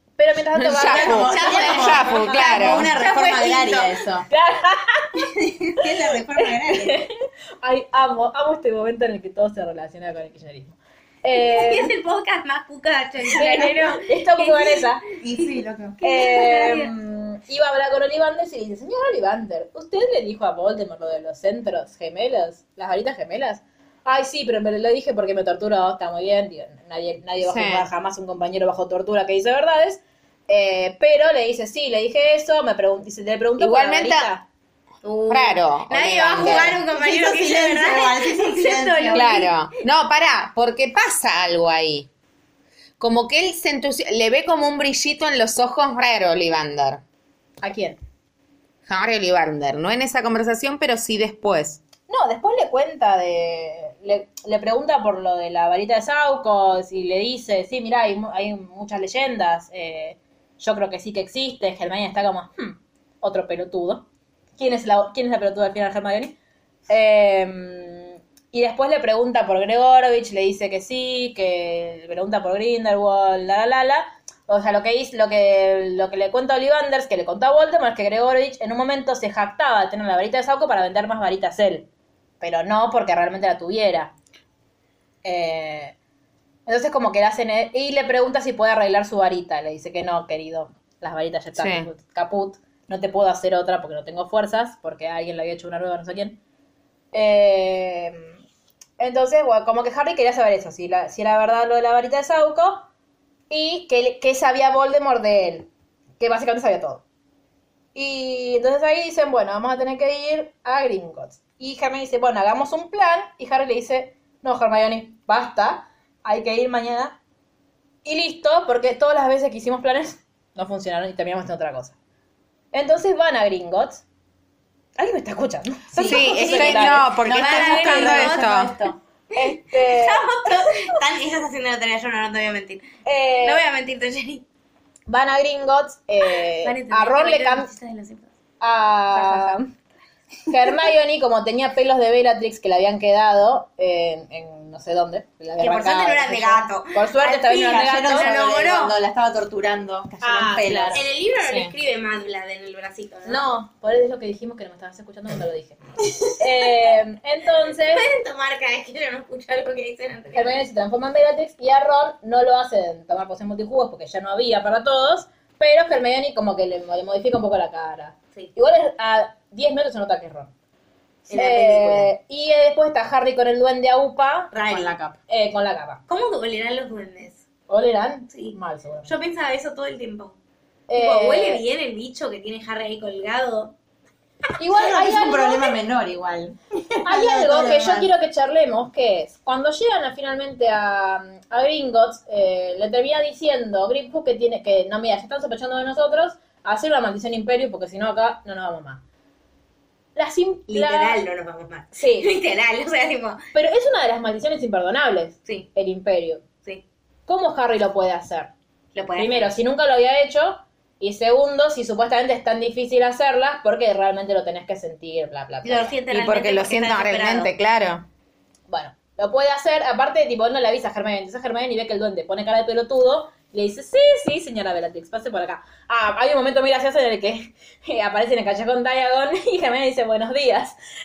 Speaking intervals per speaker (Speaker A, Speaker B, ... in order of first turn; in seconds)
Speaker A: 0.2-3.2, 4.3-5.8, 6.4-11.9, 13.3-15.1, 16.0-34.5, 47.6-48.0, 52.1-64.0, 64.6-66.3, 66.9-81.9, 82.4-84.1, 85.2-86.0, 86.7-96.4, 97.1-98.4, 99.0-102.9, 103.5-105.7, 106.2-107.0, 108.0-117.2, 118.0-122.0, 122.7-124.0, 125.0-128.2, 129.3-130.9, 133.1-133.7, 135.1-137.7, 138.6-139.7, 140.5-148.4, 150.2-151.0, 153.2-155.8, 156.3-158.1, 160.3-170.5, 171.3-176.0, 177.7-179.1, 180.9-181.6, 184.6-185.8, 187.0-199.0, 200.2-201.2, 201.9-202.3, 203.5-206.4, 207.3-208.5, 209.2-216.0, 218.7-230.8
Speaker B: 0.5-2.9, 27.4-27.9, 33.6-34.3, 35.3-36.8, 39.1-42.1, 43.0-47.0, 48.9-51.8, 91.6-91.9, 126.0-128.7, 151.4-151.7, 216.1-218.1
Speaker C: 0.8-4.3, 5.2-7.1, 15.2-16.0, 36.4-39.3, 125.9-128.9, 147.3-151.0, 174.7-175.1, 184.7-188.1
Speaker D: 1.3-2.3, 2.8-4.0, 11.3-14.9, 16.0-16.9, 35.0-39.5, 126.7-128.7, 129.3-132.9, 133.4-134.4, 136.6-138.3, 139.1-139.6, 145.6-149.0, 150.9-153.5, 157.9-160.6, 171.3-172.1, 174.6-174.9, 176.1-177.4, 178.3-180.4, 180.9-183.7, 200.7-203.4, 208.9-209.5, 215.6-217.5